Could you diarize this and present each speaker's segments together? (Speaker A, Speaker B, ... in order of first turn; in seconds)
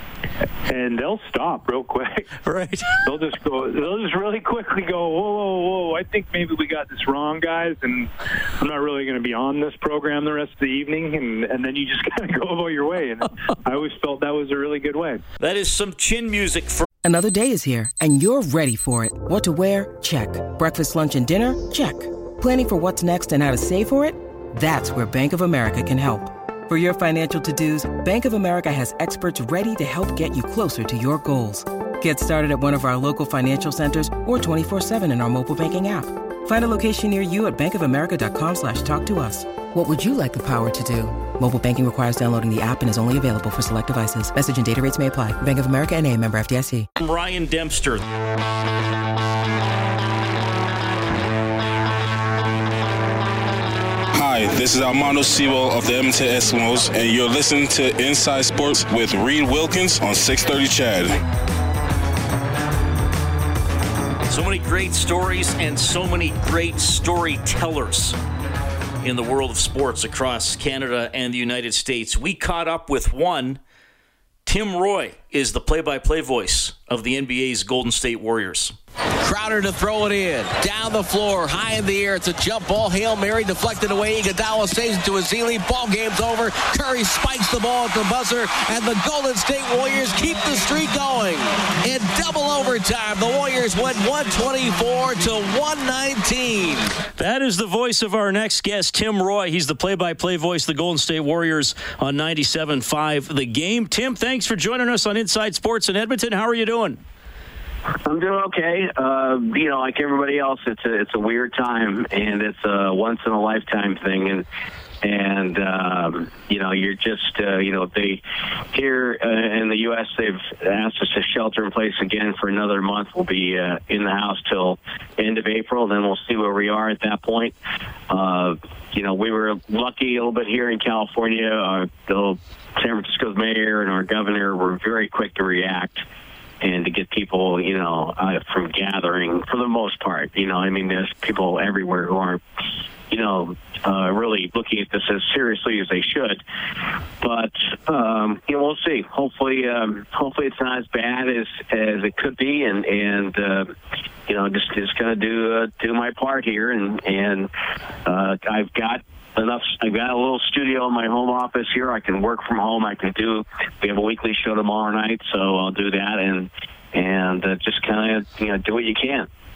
Speaker A: 0.6-2.4, 3.0-15.2
Speaker B: 2.4-3.0, 15.4-16.9, 47.0-48.0, 64.3-68.2, 69.0-73.6, 74.5-78.8, 97.2-107.0
Speaker C: 17.0-46.9
Speaker D: 54.1-61.2
Speaker E: 79.2-97.0
Speaker F: 108.0-114.5, 115.0-118.2, 118.7-127.5, 128.1-136.0, 136.6-142.4, 143.1-146.4, 147.2-153.7, 154.3-157.5, 158.1-169.3